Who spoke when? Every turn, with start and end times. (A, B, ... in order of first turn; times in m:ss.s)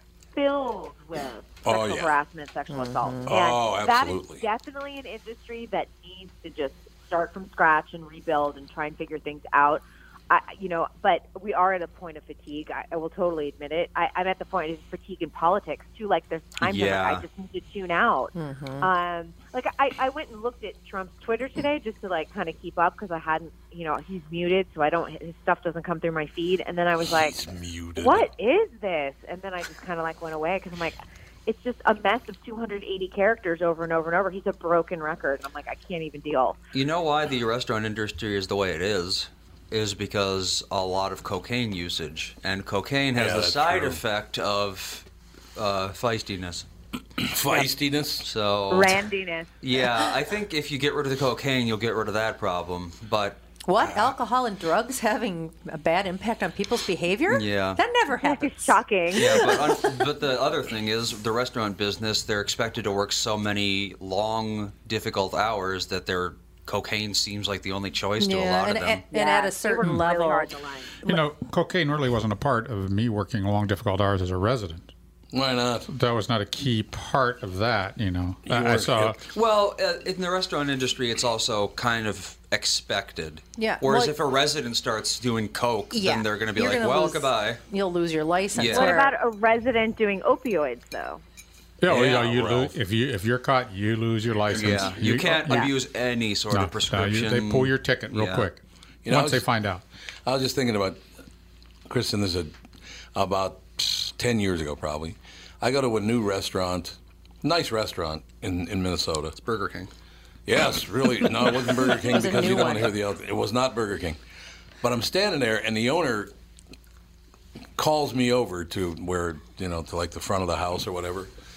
0:00.4-0:27.4 A
0:01.6-0:02.2 B
0:02.7-0:03.3 C
0:03.3-0:04.5 B
0:16.6-0:17.3 D
0:18.4-0:18.9 C
0:27.0-0:28.3 B
0:28.0-0:36.6 A
0:36.7-0:46.7 D
0:43.2-0:44.0 B
0:47.2-0:48.3 B
0:48.2-0:49.1 D
0:48.7-0:49.5 A
0:49.6-0:53.4 D
0:53.6-0:59.7 C
0:57.3-0:57.8 D
0:58.2-0:59.8 A
0:59.1-1:09.0 D
1:08.2-1:10.5 C
1:09.1-1:11.2 A
1:11.0-1:14.9 E
1:15.3-1:15.9 B
1:15.9-1:19.2 E
1:18.5-1:19.2 B
1:19.3-1:27.6 D
1:23.6-1:24.2 C
1:25.9-1:29.1 C
1:28.5-1:29.0 D
1:28.7-1:31.2 A
1:31.8-1:35.7 E
1:31.9-1:32.7 D
1:31.9-1:32.7 B
1:34.5-1:38.5 D
1:36.5-1:39.8 E
1:39.0-1:39.5 B
1:40.3-1:41.0 B
1:41.9-1:42.6 B
1:43.2-1:49.4 B
1:49.4-1:49.9 D
1:50.5-1:54.2 B
1:52.0-1:53.0 C
1:54.8-1:56.3 B
1:57.8-2:01.3 B